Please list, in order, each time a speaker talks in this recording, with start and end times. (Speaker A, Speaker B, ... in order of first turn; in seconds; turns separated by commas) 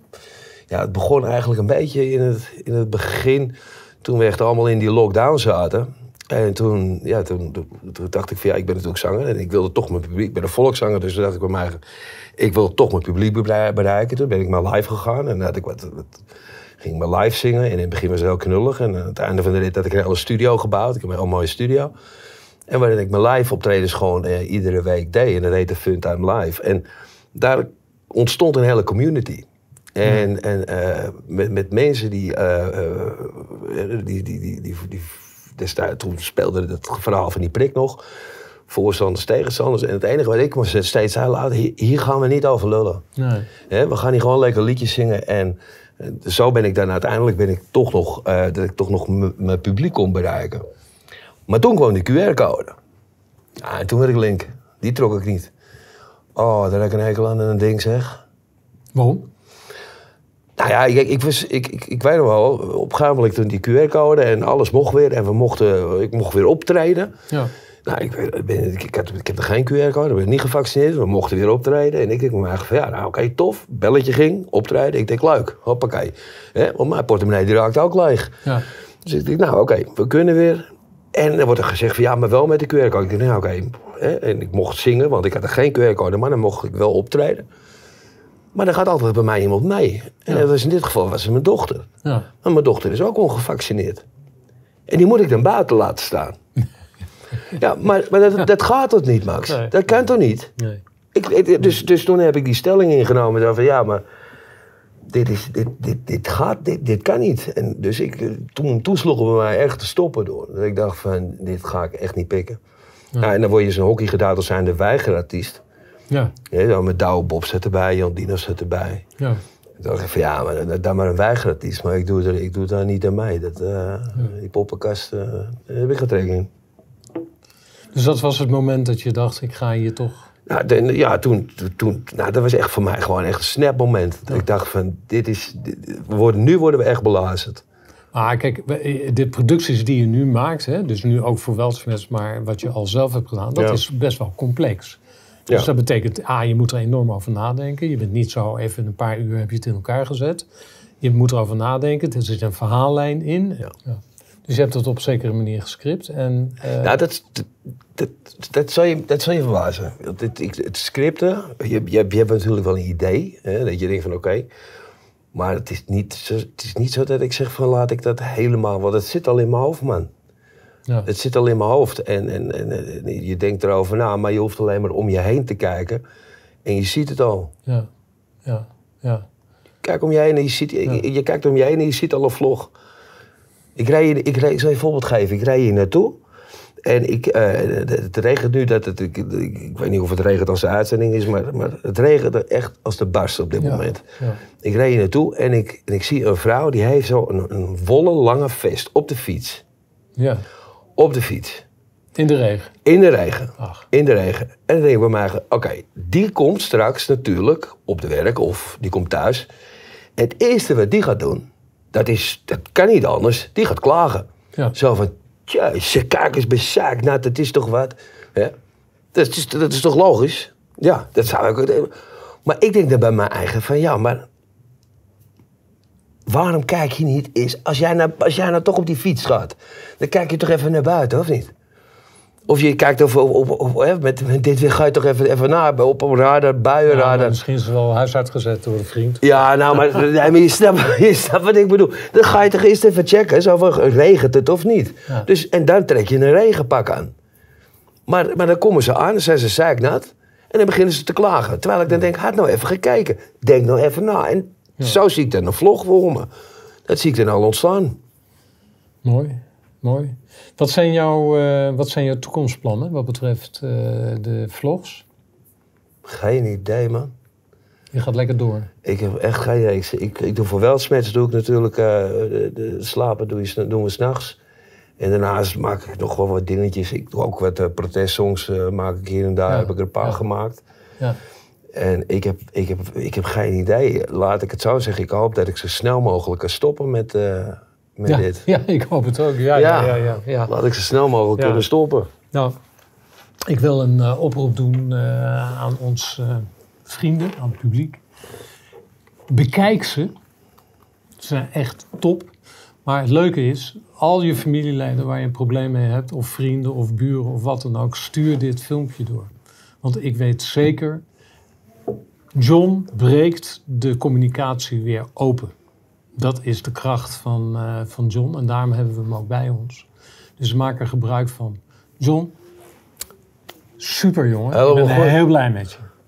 Speaker A: 0.7-11.8, Speaker A: 12.4-16.1, Speaker A: 16.8-21.9, Speaker A: 22.7-38.0, Speaker A: 38.7-43.0, Speaker B: 43.2-43.5, Speaker A: 43.7-50.6, Speaker A: 51.5-52.7, Speaker A: 53.6-55.5, Speaker A: 56.4-58.2, Speaker B: 58.9-59.2, Speaker A: 60.6-67.1, Speaker A: 67.8-78.4, Speaker A: 79.0-87.5, Speaker A: 88.5-91.8, Speaker A: 92.4-94.0, Speaker A: 94.9-96.3, Speaker A: 97.5-100.5, Speaker B: 99.5-99.7, Speaker B: 100.6-100.8, Speaker A: 101.1-104.0, Speaker A: 105.1-112.6, Speaker A: 113.2-115.6, Speaker A: 116.5-119.0, Speaker A: 119.8-126.5, Speaker B: 127.9-130.3, Speaker A: 130.5-137.6, Speaker B: 138.1-145.0, Speaker B: 145.5-150.4, Speaker B: 151.0-157.0, Speaker A: 156.8-164.5, Speaker A: 165.3-170.1, Speaker A: 171.0-176.0, Speaker A: 176.6-177.5, Speaker B: 178.4-179.2, Speaker A: 179.8-182.7, Speaker A: 183.8-186.2, Speaker A: 186.8-194.0, Speaker B: 193.6-194.4, Speaker A: 194.6-199.6, Speaker B: 200.2-200.4, Speaker A: 201.0-201.6, Speaker B: 202.2-202.7, Speaker A: 202.8-209.5, Speaker B: 203.6-203.8, Speaker A: 210.2-218.5, Speaker A: 219.1-224.2, Speaker A: 226.3-231.5, Speaker A: 232.5-237.4, Speaker B: 236.9-239.4, Speaker A: 239.2-247.1, Speaker A: 248.1-256.3, Speaker A: 256.9-258.0, Speaker B: 259.0-265.0, Speaker A: 266.0-267.1, Speaker B: 267.9-268.7, Speaker A: 268.8-274.4, Speaker A: 275.0-280.6, Speaker B: 279.5-280.2, Speaker A: 281.7-288.4, Speaker B: 288.1-290.5, Speaker A: 289.5-292.1, Speaker B: 291.4-291.6, Speaker B: 293.5-298.0, Speaker B: 299.3-300.1, Speaker B: 301.2-302.3, Speaker B: 302.8-311.0, Speaker B: 312.3-315.5, Speaker B: 316.1-319.9, Speaker B: 320.4-322.3, Speaker B: 323.8-325.9, Speaker A: 324.5-325.2